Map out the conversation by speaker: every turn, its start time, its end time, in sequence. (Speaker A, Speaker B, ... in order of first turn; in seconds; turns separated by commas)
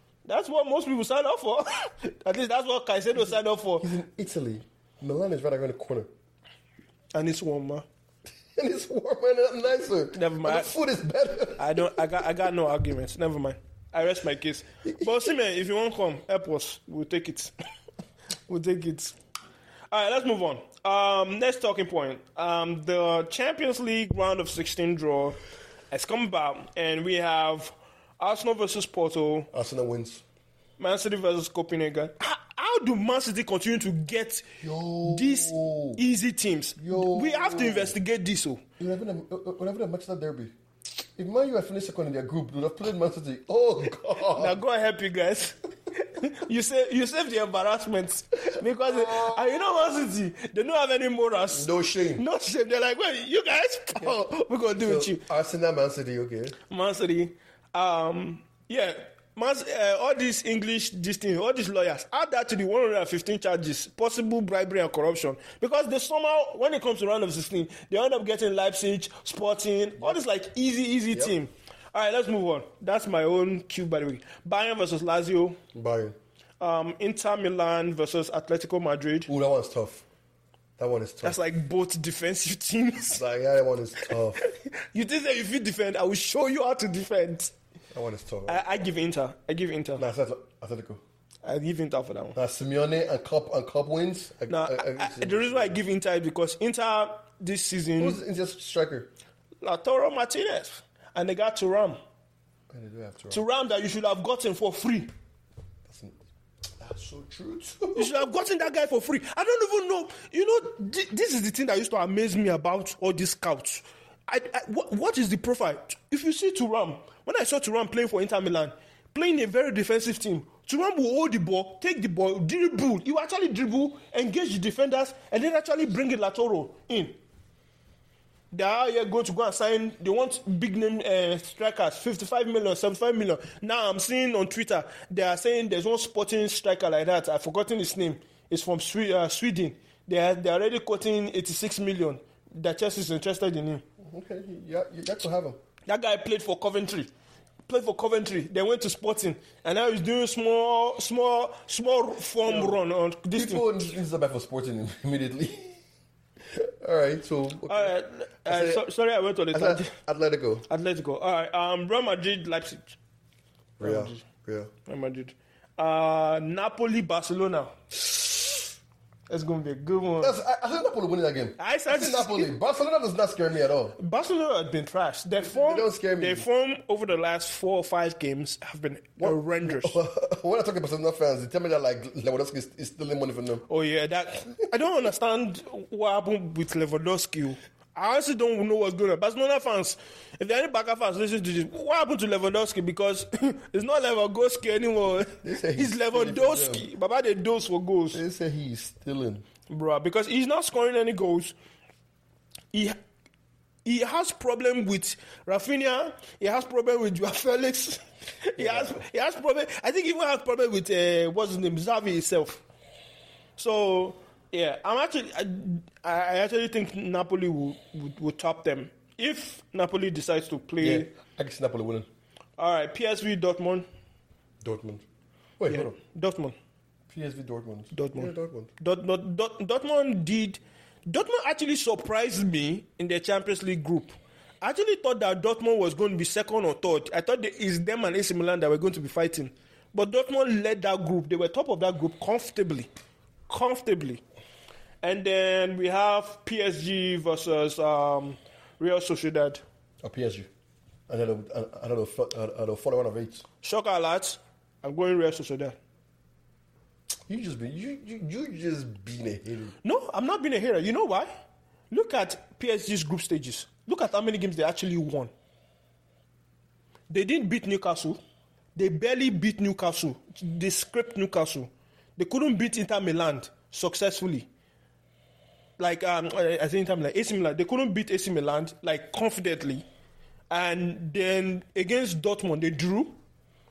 Speaker A: 0.2-3.9, Speaker B: 3.8-6.1, Speaker A: 7.1-7.9, Speaker B: 8.6-12.2, Speaker A: 10.1-10.7, Speaker A: 11.6-17.5, Speaker B: 14.9-15.1, Speaker A: 18.5-19.2, Speaker A: 19.9-25.4, Speaker A: 25.9-29.5, Speaker B: 29.5-30.2, Speaker A: 30.8-38.6, Speaker B: 34.6-36.0, Speaker B: 36.8-37.9, Speaker B: 38.8-40.5, Speaker B: 41.2-44.6, Speaker A: 44.4-55.2, Speaker B: 48.8-49.6, Speaker B: 51.5-52.2, Speaker B: 54.8-56.6, Speaker A: 56.7-75.6, Speaker B: 75.7-76.2, Speaker A: 76.6-79.3, Speaker B: 79.3-80.0, Speaker B: 80.8-81.4, Speaker A: 81.2-83.2, Speaker B: 83.2-84.4, Speaker A: 84.4-87.5, Speaker B: 87.9-88.6, Speaker A: 88.5-90.1, Speaker B: 90.0-91.0, Speaker A: 91.5-92.4, Speaker B: 92.3-95.8, Speaker A: 94.5-98.2, Speaker B: 98.0-99.1, Speaker A: 99.6-102.0, Speaker B: 102.7-103.4, Speaker A: 103.3-105.1, Speaker B: 105.9-106.2, Speaker B: 106.8-108.3, Speaker A: 108.0-127.2, Speaker A: 128.5-143.8, Speaker B: 144.0-145.6, Speaker A: 145.9-147.1, Speaker A: 147.7-153.7, Speaker B: 152.4-152.8, Speaker B: 153.3-155.8, Speaker B: 156.5-158.8, Speaker A: 157.7-159.9, Speaker B: 159.5-160.7, Speaker A: 160.7-163.0, Speaker A: 163.8-164.3, Speaker B: 163.8-164.7, Speaker A: 164.9-168.1, Speaker A: 169.3-170.4, Speaker B: 170.2-174.0, Speaker A: 171.6-172.5, Speaker A: 174.0-180.0, Speaker B: 175.4-176.4, Speaker B: 179.2-183.7, Speaker A: 183.7-198.2, Speaker B: 195.4-196.9, Speaker B: 198.1-199.4, Speaker A: 199.7-201.6, Speaker A: 203.8-212.6, Speaker B: 208.6-209.0, Speaker A: 213.6-221.1, Speaker B: 220.8-222.1, Speaker A: 222.6-223.9, Speaker B: 224.6-225.0, Speaker B: 225.6-225.9, Speaker A: 225.7-226.6, Speaker B: 227.1-228.7, Speaker A: 227.9-242.9, Speaker A: 243.5-244.2, Speaker A: 245.0-249.6, Speaker B: 250.0-250.5, Speaker B: 251.1-253.4, Speaker A: 253.6-255.8, Speaker B: 257.3-259.8, Speaker A: 259.8-261.3, Speaker A: 261.9-265.3, Speaker A: 267.1-268.2, Speaker A: 268.8-274.5, Speaker A: 275.8-279.9, Speaker A: 280.5-283.2